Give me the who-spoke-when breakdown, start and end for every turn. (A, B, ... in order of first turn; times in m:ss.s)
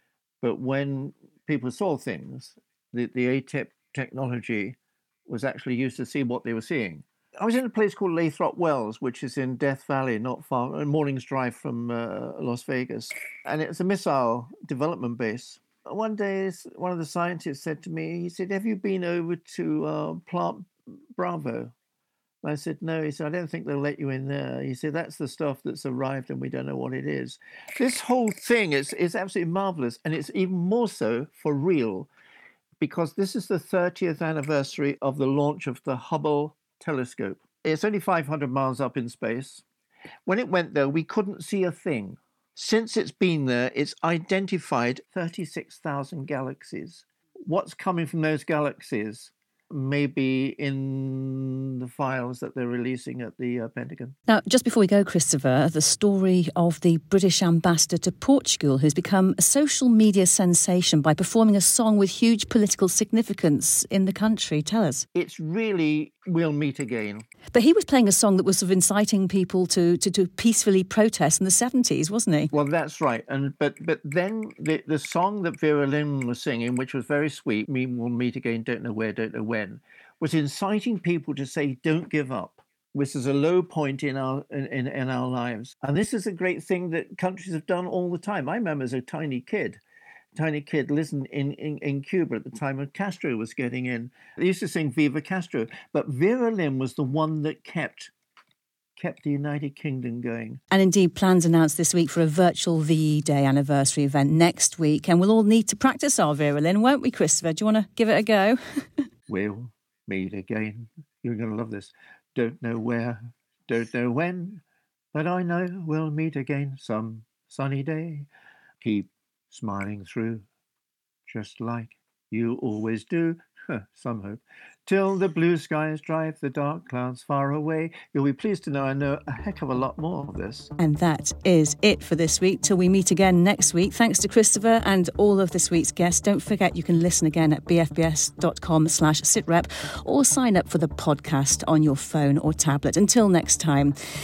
0:00.4-0:21.7 A
0:22.4-0:32.1 A
0:32.8-0:39.6 A
0:40.2-0:54.1 A
0:54.3-1:05.0 B
1:05.1-1:07.2 A
1:07.5-1:12.5 B
1:12.5-1:29.8 A
1:30.4-1:38.1 A
1:39.0-1:40.6 A
1:40.7-1:49.0 B
1:49.3-1:54.6 A
1:55.1-1:58.3 A
1:58.8-2:00.4 A
2:01.3-2:10.7 A
2:10.8-2:23.9 B